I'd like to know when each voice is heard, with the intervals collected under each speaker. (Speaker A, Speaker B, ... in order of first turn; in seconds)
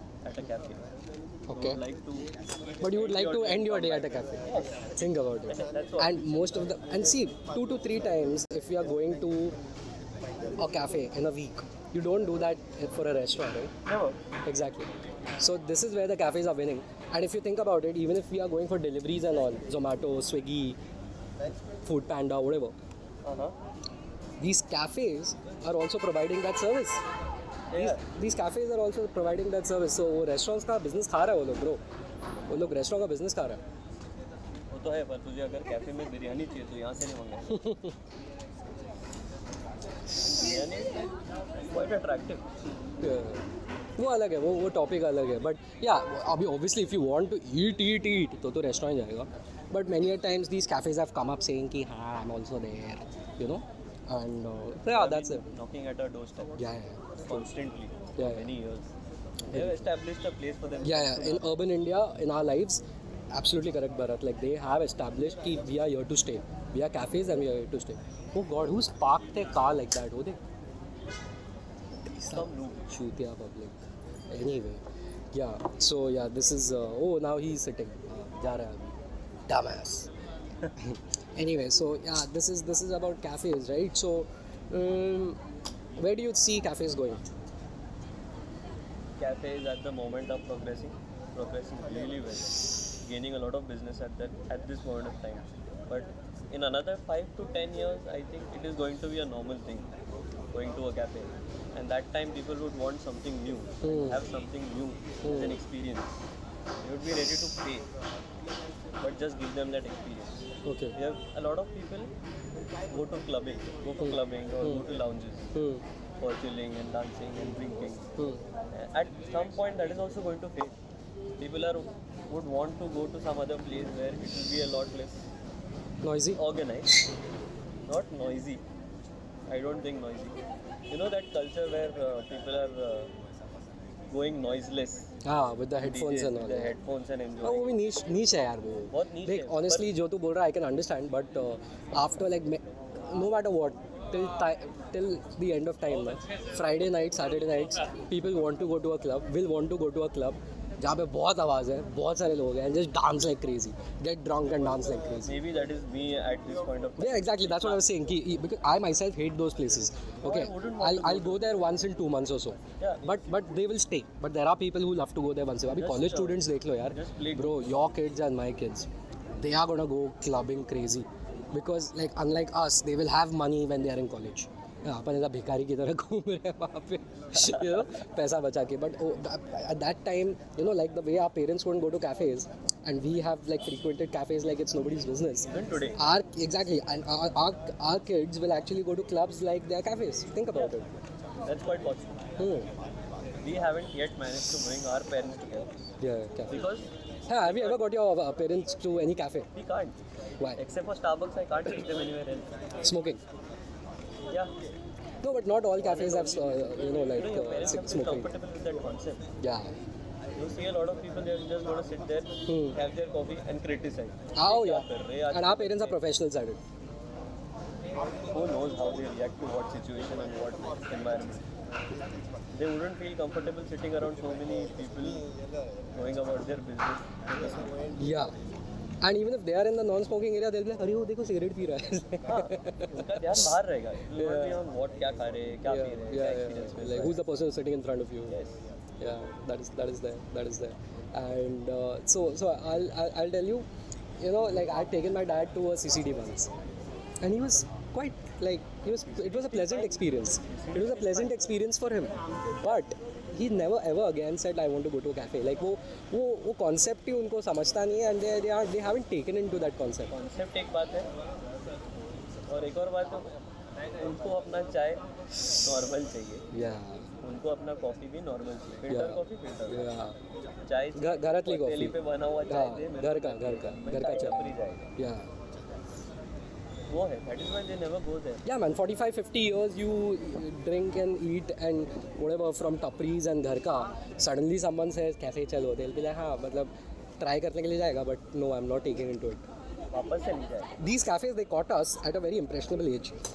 Speaker A: 0.2-0.8, 1.5-4.9, 5.5-6.2, 13.8-14.2, 23.2-23.5, 27.7-28.0, 34.7-37.7, 40.2-42.5, 54.9-56.6, 57.2-58.9, 59.4-61.6, 72.3-72.9, 89.2-99.9, 100.5-106.1, 106.8-107.9, 109.0-112.1, 112.9-115.5, 116.2-118.1, 118.7-120.8, 121.4-125.3, 126.3-127.0, 127.9-128.6, 129.5-130.4, 130.9-133.1, 134.1-135.1, 135.8-137.8, 138.9-139.9, 155.2-157.8, 160.2-161.5, 162.8-163.2, 165.7-167.7, 177.4-177.7, 185.5-186.0, 191.4-192.2, 193.4-195.9, 196.5-197.8, 199.5-200.0, 200.5-202.6, 205.8-209.3, 210.3-216.0, 218.3-221.4, 222.5-225.3, 225.9-227.8, 232.3-237.2, 238.3-238.6, 248.9-251.6, 260.1-261.1, 262.5-263.3, 263.9-266.5, 267.2-269.9, 270.6-274.9, 276.9-278.4, 289.9-290.7
Speaker B: 1.5-1.8, 2.8-4.4, 4.9-9.6, 10.6-13.7, 14.4-20.8, 21.8-22.7, 24.4-27.0, 27.7-31.8, 32.5-33.6, 37.5-37.9, 43.0-43.4, 44.0-55.4, 56.6-57.5, 58.2-58.5, 59.5-59.8, 60.8-70.4, 72.0-79.0, 79.5-80.1, 80.8-85.4, 86.0-87.2, 103.8-104.2, 105.2-105.5, 110.6-111.0, 114.0-114.8, 115.5-115.8, 118.2-118.4, 126.0-126.4, 135.2-136.7, 137.4-155.4, 157.0-190.9, 192.4-192.7, 196.0-196.6, 197.3-199.5, 202.8-203.2, 205.2-208.3, 209.4-209.7, 212.5-212.8, 214.3-216.6, 227.9-228.3, 229.0-233.5, 234.2-234.6, 235.7-238.3, 239.0-243.7, 244.2-246.5, 247.2-260.1, 266.5-267.1, 268.9-270.1, 270.9-275.3, 278.4-289.4, 290.8-293.1